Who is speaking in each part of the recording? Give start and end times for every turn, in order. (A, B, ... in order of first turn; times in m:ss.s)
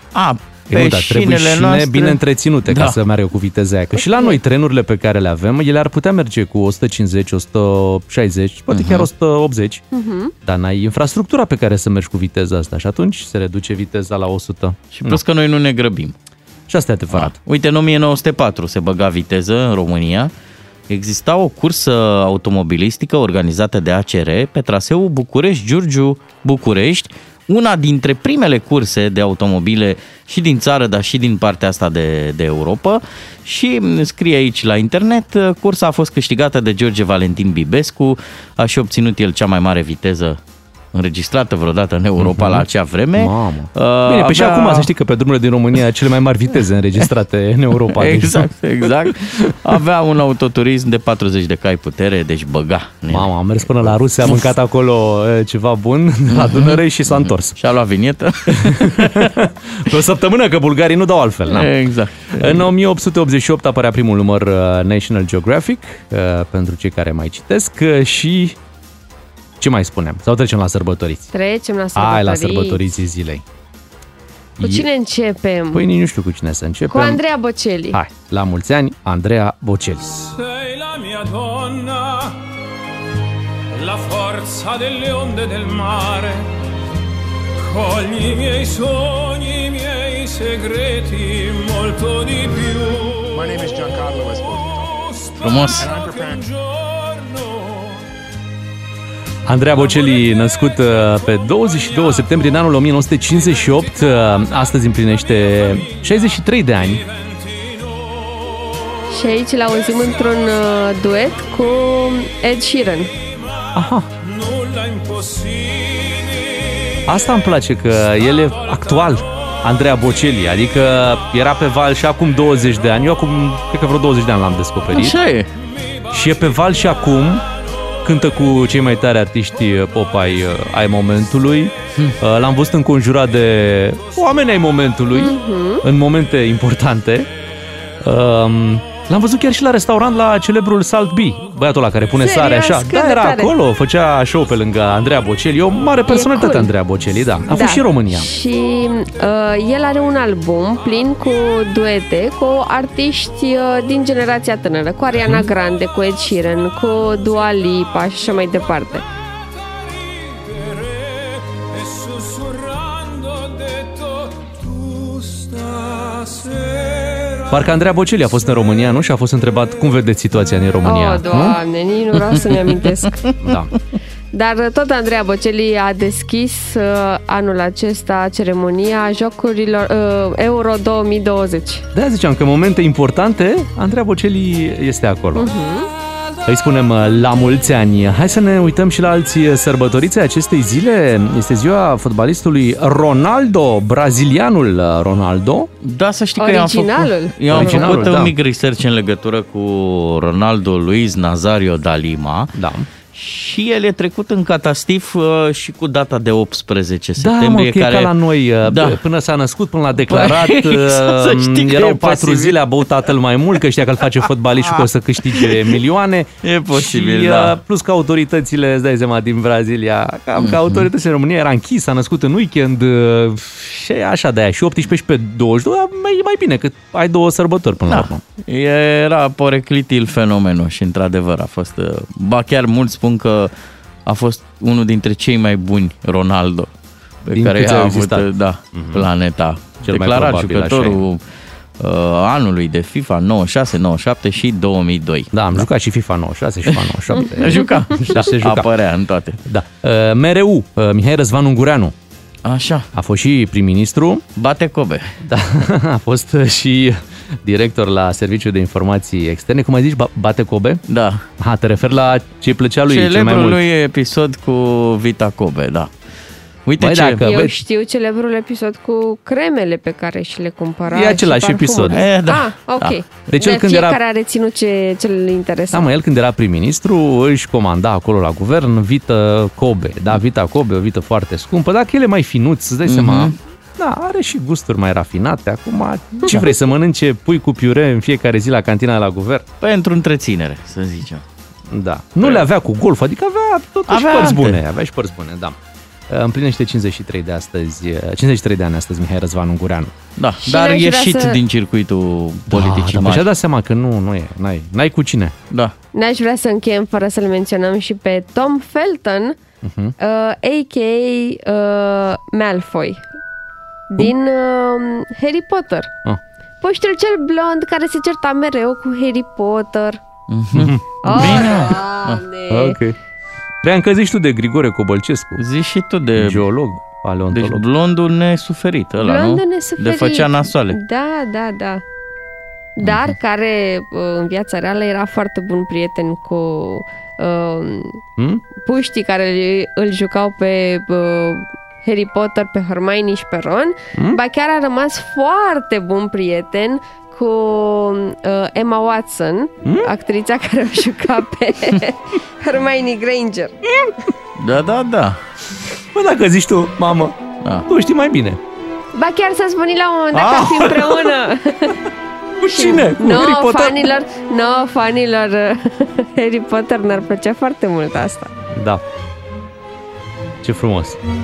0:00.1-0:03.0 A
0:00.7-0:09.8 B
0:08.7-0:09.1 A
0:09.9-0:10.3 C
0:10.4-0:15.2 B
0:14.9-0:16.1 A
0:16.7-0:17.3 B
0:17.1-0:20.3 A
0:20.9-0:40.4 A
0:40.9-0:44.9 A
0:42.2-0:42.6 B
0:43.2-0:48.5 B
0:47.9-0:54.5 A
0:53.1-0:57.6 B
0:56.3-0:59.3 A
0:58.5-1:01.7 B
1:01.5-1:02.7 A
1:02.3-1:08.6 B
1:09.6-1:11.3 B
1:11.3-1:12.8 C
1:12.0-1:13.4 B
1:14.6-1:14.8 B
1:14.6-1:15.8 C
1:15.7-1:17.2 B
1:16.9-1:18.0 C
1:17.9-1:20.3 B
1:20.8-1:22.0 D
1:24.1-1:26.3 D
1:27.8-1:29.6 D
1:30.3-1:32.4 D
1:33.3-1:34.9 E
1:35.4-1:35.9 A
1:35.8-1:36.4 E
1:39.4-1:47.0 B
1:49.1-1:53.1 C
1:53.7-1:54.1 B
1:57.1-2:05.2 B
2:04.9-2:05.5 A
2:06.1-2:07.4 B
2:08.0-2:17.3 B
2:15.1-2:15.8 C
2:18.0-2:28.3 B
2:22.2-2:23.5 C
2:26.1-2:26.7 C
2:27.5-2:39.0 C
2:47.4-2:51.6 B
2:50.8-2:53.2 C
2:53.4-2:53.8 B
2:54.3-3:01.8 C
3:01.9-3:05.5 B
3:05.4-3:05.9 C
3:06.4-3:15.7 B
3:15.8-3:22.5 A
3:16.4-3:18.0 C
3:17.5-3:18.3 B
3:22.6-3:22.9 B
3:23.1-3:28.1 A
3:27.2-3:48.2 B
3:28.6-3:29.0 A
3:30.0-3:32.6 A
3:34.6-3:35.6 A
3:36.4-3:37.6 A
3:40.4-3:40.9 A
3:47.8-3:53.5 A
3:54.0-3:56.7 A
3:57.2-4:01.2 A
3:57.3-3:59.1 B
3:59.8-4:01.0 B
4:01.8-4:05.6 A
4:05.3-4:08.7 B
4:07.4-4:09.4 A
4:09.5-4:11.9 B
4:12.4-4:12.9 A
4:12.9-4:14.2 B
4:14.4-4:15.1 A
4:15.2-4:20.8 B
4:20.9-4:21.2 A
4:21.4-4:23.6 B
4:22.9-4:25.9 A
4:26.6-4:27.2 A
4:26.8-4:27.5 B
4:27.2-4:35.9 C
4:30.9-4:32.0 B
4:31.9-4:33.0 A
4:33.3-4:34.0 B
4:35.7-4:49.4 B
4:42.8-4:43.3 A
4:49.6-4:51.2 A
4:51.7-4:55.5 B
4:53.9-4:54.6 A
4:56.1-4:59.9 B
5:00.2-5:03.3 A
5:00.4-5:01.4 C
5:02.5-5:05.3 B
5:05.9-5:09.4 C
5:09.6-5:09.9 B
5:10.0-5:13.0 C
5:13.9-5:15.9 C
5:16.6-5:20.0 C
5:20.3-5:22.2 A
5:20.5-5:21.6 B
5:21.0-5:22.8 C
5:22.5-5:23.0 B
5:23.6-5:25.4 B
5:25.4-5:26.4 A
5:26.2-5:27.6 B
5:27.3-5:30.8 A
5:29.0-5:31.8 C
5:32.8-5:38.0 C
5:32.8-5:33.1 A
5:38.6-5:53.5 C
5:54.4-5:55.2 A
5:55.9-5:57.1 B
5:57.7-5:58.4 B
5:58.9-6:01.8 C
6:00.1-6:00.7 A
6:02.4-6:03.7 B
6:02.5-6:08.3 C
6:08.5-6:08.8 B
6:10.4-6:11.0 B